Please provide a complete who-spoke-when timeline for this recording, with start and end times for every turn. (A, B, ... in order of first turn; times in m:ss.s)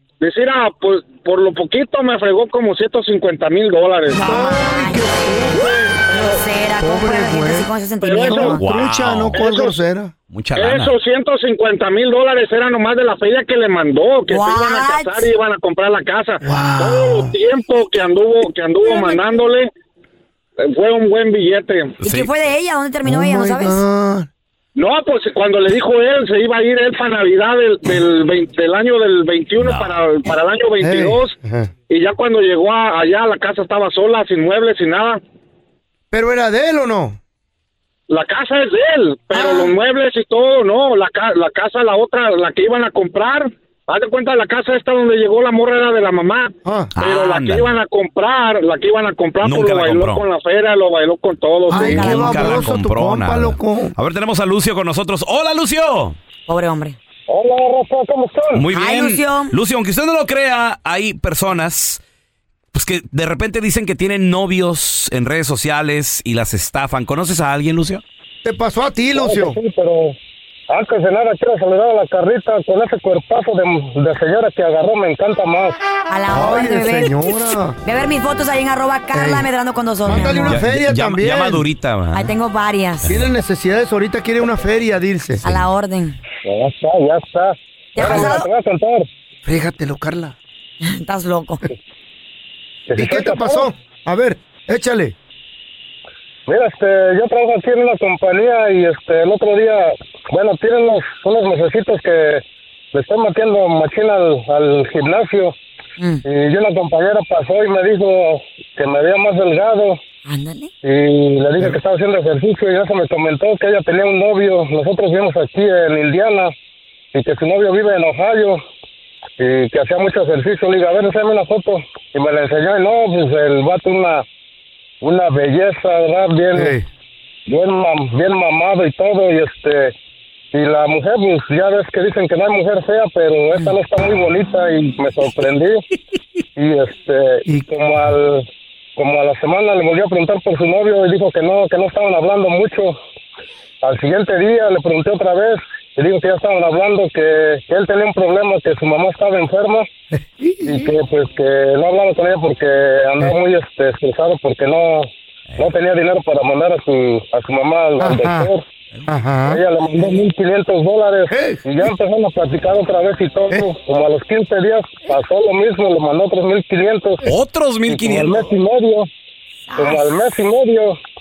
0:00.2-0:04.3 A
0:04.1-0:08.6 B
0:04.1-0:05.8 C
0:05.6-0:06.0 A
0:06.8-0:10.1 C
0:08.0-0:08.5 A
0:08.5-0:09.4 D
0:09.3-0:09.7 A
0:10.3-0:11.0 D
0:10.6-0:19.7 A
0:14.3-0:15.3 B
0:16.4-0:17.3 C
0:20.6-0:21.9 A
0:22.0-0:22.3 D
0:22.0-0:23.8 B
0:23.0-0:24.3 C
0:24.8-0:31.3 A
0:29.6-0:30.1 D
0:30.8-0:31.7 C
0:31.9-0:35.2 A
0:36.1-0:37.2 C
0:38.1-0:52.1 A
0:46.6-0:46.9 C
0:46.9-0:47.8 D
0:49.4-0:50.2 D
0:51.7-0:53.9 C
0:51.7-0:56.2 D
0:51.8-0:52.6 B
0:56.5-0:57.0 B
0:57.3-0:58.6 E
0:58.5-1:02.0 D
0:58.7-0:59.5 B
1:02.7-1:08.0 D
1:08.4-1:09.6 C
1:09.1-1:10.2 E
1:10.7-1:15.8 E
1:16.1-1:17.2 B
1:16.3-1:17.8 C
1:17.8-1:20.6 B
1:19.1-1:19.5 C
1:20.0-1:21.6 C
1:20.1-1:22.3 D
1:22.1-1:23.2 B
1:23.0-1:25.5 C
1:25.4-1:26.2 B
1:26.4-1:29.1 E
1:27.9-1:28.5 B
1:28.0-1:28.3 C
1:29.4-1:30.4 C
1:30.8-1:31.6 B
1:32.9-1:33.7 E
1:32.9-1:35.1 C
1:36.5-1:42.4 E
1:42.9-1:45.5 E
1:46.2-1:50.0 E
1:50.2-1:50.7 B
1:50.8-1:56.5 E
1:57.1-1:58.6 E
1:59.4-2:04.2 E
2:05.0-2:06.8 E
2:06.6-2:06.8 C
2:07.5-2:09.9 E
2:10.5-2:15.8 E
2:16.6-2:18.4 E
2:19.0-2:22.9 E
2:23.8-2:29.9 E
2:30.1-2:30.9 C
2:30.6-2:38.6 E
2:38.0-2:38.5 C
2:39.1-2:39.6 C
2:39.5-2:47.2 E
2:41.3-2:41.6 C
2:47.2-2:48.5 D
2:47.9-2:49.1 E
2:49.7-2:50.0 B
2:49.8-2:51.0 E